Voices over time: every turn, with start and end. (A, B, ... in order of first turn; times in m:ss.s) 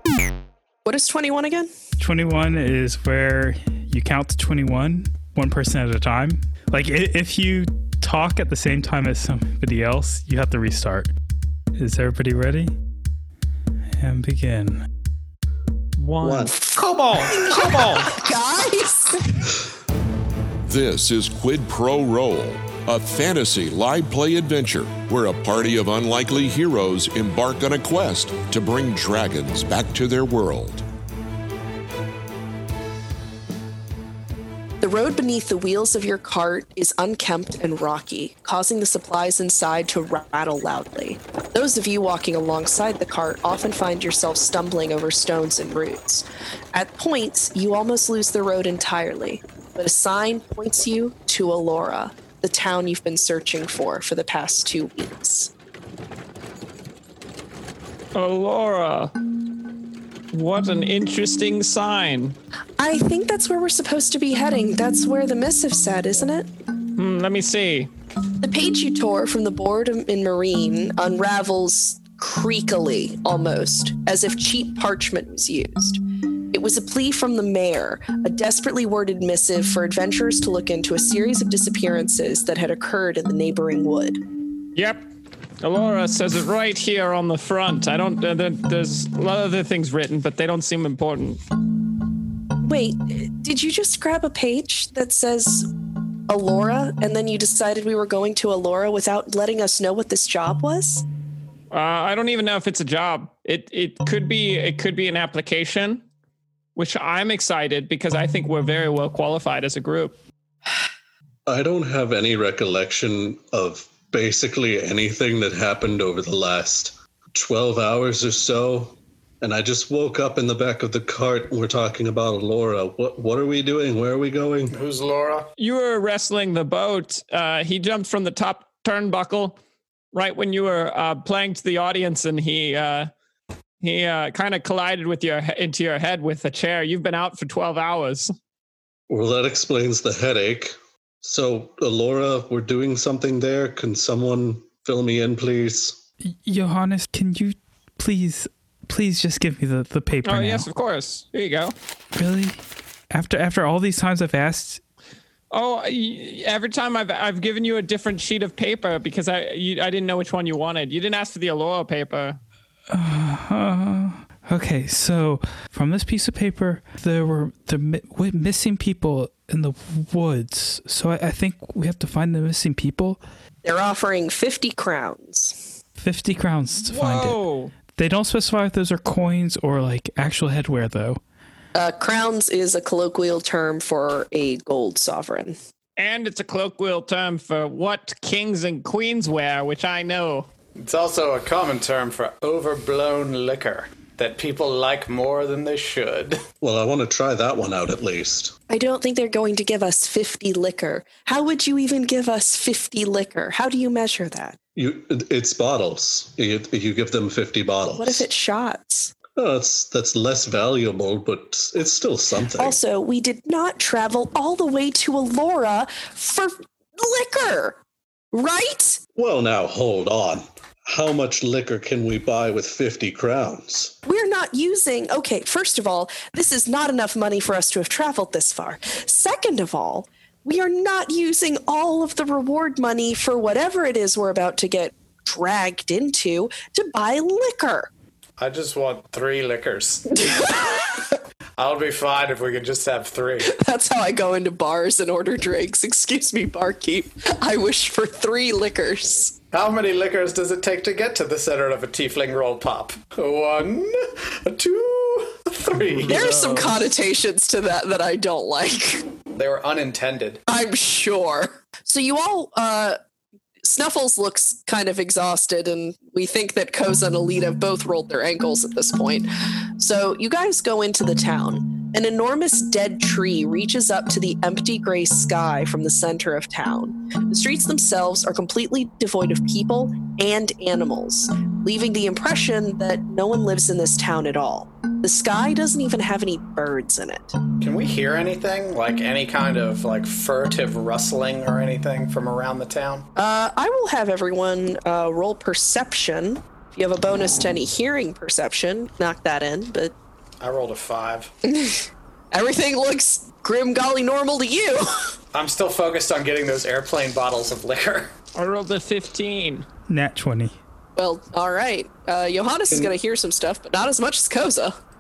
0:00.8-0:01.7 A
0:02.0-0:11.1 B
0:11.8-0:12.7 B
0:14.0-0:14.8 B
0:16.0-0:18.1 C
0:16.2-0:16.7 D
0:17.2-0:19.4 A
0:20.6-0:30.8 E
0:34.8-0:55.5 A
0:58.1-0:59.1 C
1:00.3-1:02.4 C
1:02.8-1:06.5 A
1:07.0-1:07.9 C
1:08.4-1:16.0 A
1:16.5-1:24.2 A
1:24.8-1:25.1 C
1:25.6-1:31.4 C
1:32.6-1:35.7 A
1:36.3-1:41.0 A
1:41.7-1:46.0 C
1:46.8-1:50.2 C
1:51.5-2:04.8 D
2:04.7-2:05.5 F
2:05.6-2:09.6 C
2:10.1-2:13.1 C
2:13.8-2:18.3 C
2:19.1-2:26.0 D
2:26.2-2:30.7 B
2:30.2-2:31.8 C
2:32.2-2:32.6 B
2:33.1-2:34.8 B
2:35.5-2:42.4 C
2:42.9-2:53.2 B
2:53.6-2:55.7 A
2:56.0-2:57.4 B
2:56.9-2:57.7 C
2:58.0-3:01.2 B
3:01.8-3:05.6 A
3:06.0-3:10.5 C
3:10.8-3:16.4 F
3:16.6-3:18.6 D
3:18.7-3:24.6 A
3:24.8-3:28.3 D
3:28.0-3:29.1 A
3:29.4-3:32.8 D
3:32.6-3:37.8 A
3:38.3-3:39.0 A
3:39.2-3:44.0 D
3:44.0-3:57.9 A
3:58.4-4:00.2 F
4:00.1-4:01.1 A
4:01.6-4:03.5 F
4:03.4-4:09.4 A
4:09.5-4:16.6 F
4:15.8-4:16.7 C
4:16.1-4:19.1 A
4:19.3-4:20.4 F
4:20.5-4:23.0 A
4:23.6-4:47.4 A
4:47.6-4:53.1 F
4:53.2-4:59.9 A
5:00.4-5:01.3 F
5:01.5-5:05.1 A
5:05.3-5:08.1 F
5:08.4-5:09.7 C
5:09.9-5:10.6 B
5:11.0-5:14.8 A